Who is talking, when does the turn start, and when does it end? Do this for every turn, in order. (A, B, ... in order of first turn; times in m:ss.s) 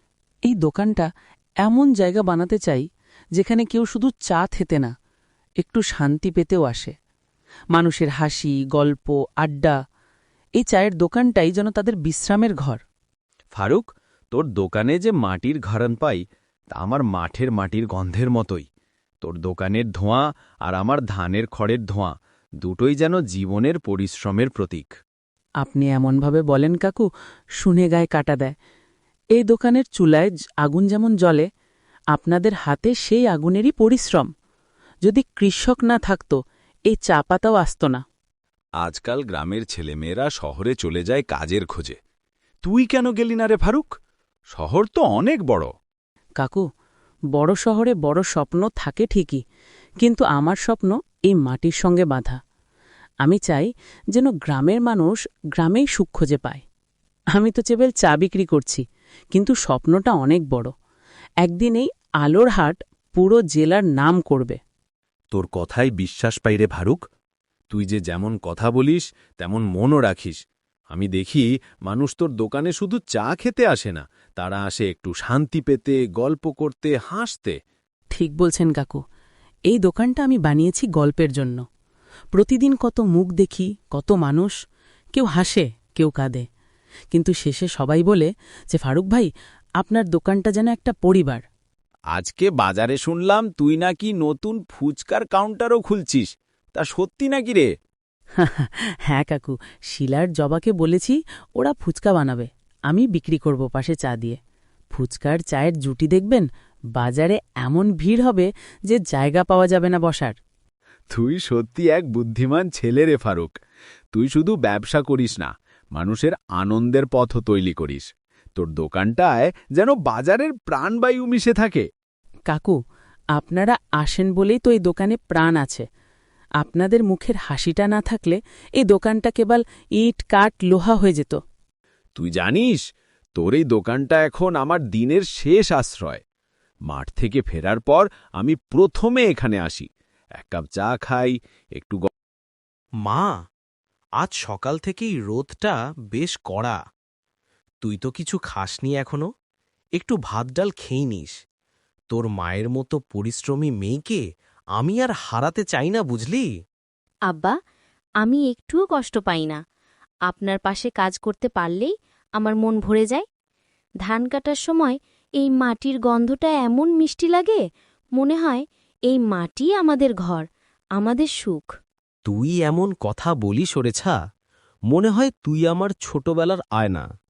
0:00.5-0:01.1 A
0:01.6-0:04.9 A
0:05.6-0:06.9 A
0:07.7-0:09.8 A
0:10.6-0:12.8 A
0:13.5-0:18.6 B
0:19.2-0:25.0 B
0:25.6-0:27.1 A
0:27.6-0:28.5 A
0:29.3-0:31.5 A
0:32.1-0:34.3 A
0:35.0-0:38.0 A
0:38.8-0:42.0 B
0:42.6-0:43.9 B
0:44.5-0:45.7 B
0:47.3-0:49.4 A
0:50.0-0:52.4 A
0:53.2-0:56.6 A
0:57.3-1:00.7 A
1:01.4-1:04.6 A
1:05.3-1:07.0 B
1:07.7-1:10.4 B
1:10.9-1:17.6 B
1:18.1-1:19.0 A
1:19.7-1:21.6 A
1:22.3-1:24.5 A
1:25.1-1:26.4 A
1:27.1-1:31.4 A
1:32.1-1:37.7 B
1:38.4-1:44.4 A
1:44.9-1:50.3 A
1:51.1-1:53.5 B
1:54.1-2:01.9 B
2:02.5-2:02.8 A
2:03.3-2:05.8 A
2:06.6-2:11.4 A
2:12.2-2:12.8 B
2:13.4-2:16.2 B
2:16.9-2:22.1 B
2:23.0-2:23.3 C
2:24.2-2:26.8 C
2:27.8-2:29.2 C
2:30.0-2:31.3 C
2:32.1-2:34.2 C
2:34.8-2:36.5 C
2:38.2-2:39.6 D
2:40.3-2:43.2 D
2:44.0-2:47.6 D
2:48.2-2:50.5 D
2:51.0-2:51.7 D
2:52.2-2:54.1 C
2:54.9-2:57.0 C